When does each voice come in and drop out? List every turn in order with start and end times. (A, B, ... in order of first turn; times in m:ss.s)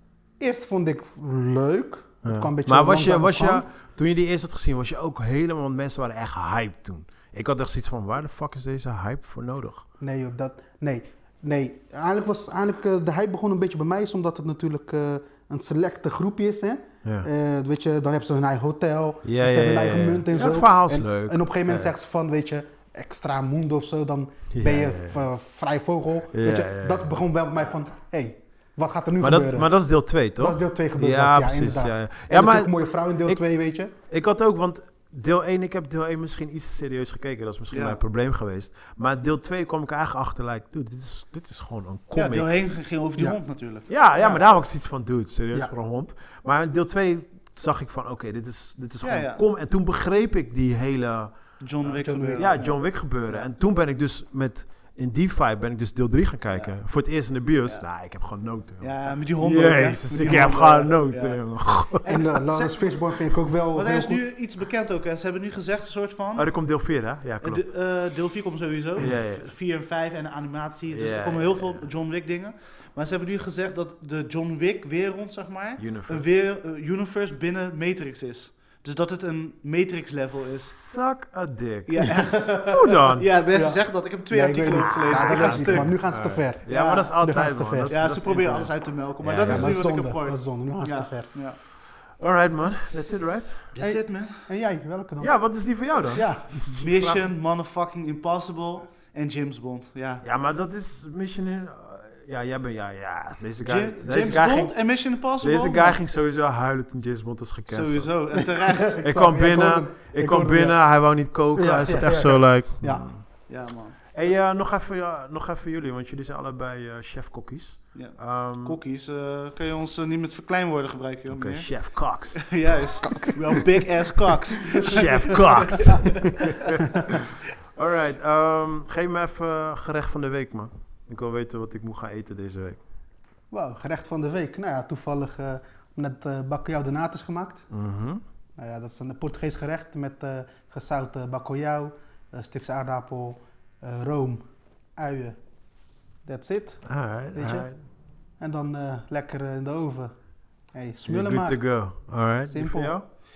0:00.4-0:03.6 A
0:02.2-0:09.8 B
0:10.0-0:29.7 A
0:19.2-0:21.9 B
0:24.5-0:25.2 B
0:26.3-0:27.2 B
0:29.2-0:33.4 B
0:30.4-0:33.9 A
0:34.1-0:42.5 B
0:37.7-0:38.0 C
0:42.1-0:44.4 C
0:43.9-0:51.4 B
0:49.0-0:49.4 C
0:51.6-0:53.5 C
0:51.9-0:52.6 A
0:52.4-1:02.1 B
0:56.5-0:56.7 C
0:58.8-1:03.1 C
1:02.1-1:04.2 A
1:03.7-1:06.5 C
1:06.4-1:07.7 B
1:07.4-1:20.7 C
1:09.0-1:09.5 B
1:10.9-1:11.9 B
1:15.8-1:16.3 B
1:20.3-1:23.2 B
1:21.9-1:25.9 C
1:23.5-1:28.0 A
1:24.7-1:29.8 B
1:27.9-1:31.6 C
1:29.4-1:31.3 A
1:32.2-1:33.7 B
1:33.8-1:34.5 C
1:33.8-1:35.4 A
1:35.2-1:37.2 B
1:36.1-1:36.6 A
1:36.7-1:40.2 C
1:40.2-1:44.8 B
1:43.6-1:46.0 C
1:45.4-1:48.1 B
1:47.7-1:49.1 C
1:48.4-1:50.8 A
1:49.0-1:53.2 B
1:51.5-1:53.1 A
1:53.5-1:54.0 C
1:54.1-1:58.8 B
1:57.9-2:06.6 C
2:01.3-2:02.6 B
2:04.8-2:12.8 B
2:13.5-2:17.7 A
2:17.7-2:18.2 B
2:18.6-2:24.4 A
2:25.0-2:25.4 A
2:26.2-2:27.7 A
2:26.8-2:27.8 B
2:28.4-2:30.1 A
2:30.7-2:31.6 A
2:31.0-2:33.0 B
2:32.5-2:33.0 A